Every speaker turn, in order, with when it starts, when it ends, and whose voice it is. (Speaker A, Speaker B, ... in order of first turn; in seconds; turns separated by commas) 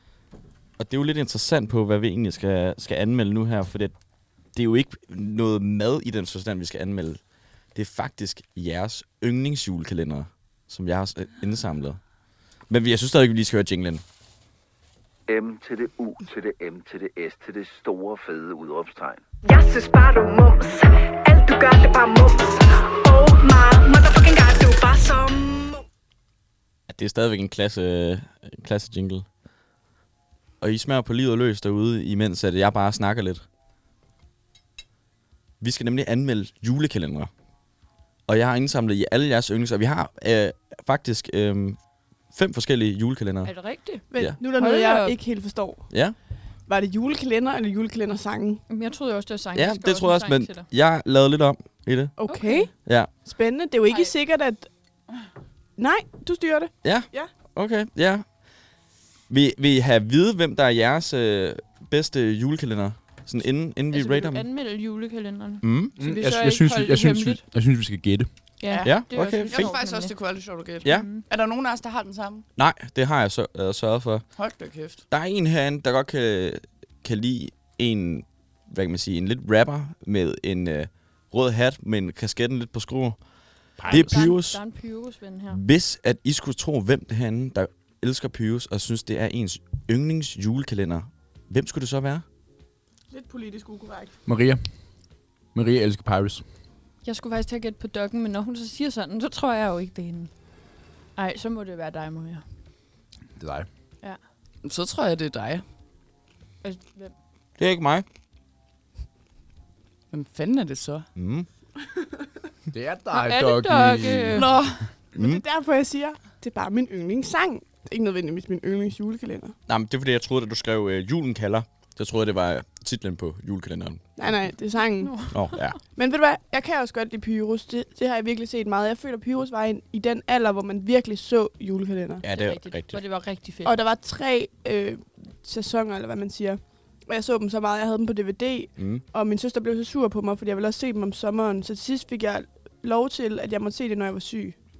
Speaker A: 0.8-3.9, Speaker A: 4.5-7.2, Speaker A: 7.7-12.0, Speaker A: 12.7-14.0, Speaker B: 15.3-19.2, Speaker C: 19.4-25.8, Speaker A: 26.9-29.2, Speaker A: 30.6-33.4, Speaker A: 35.6-37.3, Speaker A: 38.3-41.8, Speaker A: 42.3-43.5, Speaker D: 43.4-45.1, Speaker E: 44.1-45.9, Speaker F: 44.5-45.1, Speaker A: 45.9-46.1, Speaker E: 46.6-48.6, Speaker D: 48.7-50.6, Speaker A: 49.5-52.1, Speaker E: 52.1-54.7, Speaker D: 52.3-52.7, Speaker A: 52.8-53.1, Speaker E: 55.8-57.3, Speaker A: 56.8-58.2, Speaker A: 59.3-64.4, Speaker D: 63.9-67.4, Speaker A: 65.6-65.9, Speaker G: 66.0-68.3, Speaker D: 68.6-70.1, Speaker F: 68.7-72.5, Speaker A: 68.8-69.8, Speaker A: 70.8-71.1, Speaker D: 70.8-71.2, Speaker A: 72.6-74.2, Speaker F: 74.4-75.0, Speaker A: 75.1-83.2, Speaker G: 83.8-84.3, Speaker A: 83.9-84.6, Speaker D: 83.9-85.6, Speaker A: 85.5-92.2, Speaker E: 93.1-94.1, Speaker G: 94.2-94.6, Speaker G: 95.5-96.4, Speaker D: 97.0-100.3, Speaker D: 101.2-102.4, Speaker G: 103.3-103.7, Speaker F: 104.6-105.6, Speaker D: 106.6-107.1, Speaker A: 107.6-108.0, Speaker F: 110.1-111.0, Speaker A: 111.2-111.5, Speaker G: 112.7-114.7, Speaker D: 113.1-114.5, Speaker F: 114.3-114.8, Speaker E: 115.2-119.5, Speaker A: 115.2-115.4, Speaker A: 119.7-124.0, Speaker E: 124.2-125.3, Speaker D: 125.0-125.7, Speaker A: 125.3-125.8, Speaker E: 125.9-132.2, Speaker A: 132.2-133.0, Speaker D: 132.2-133.7, Speaker E: 133.6-144.6, Speaker A: 138.8-139.0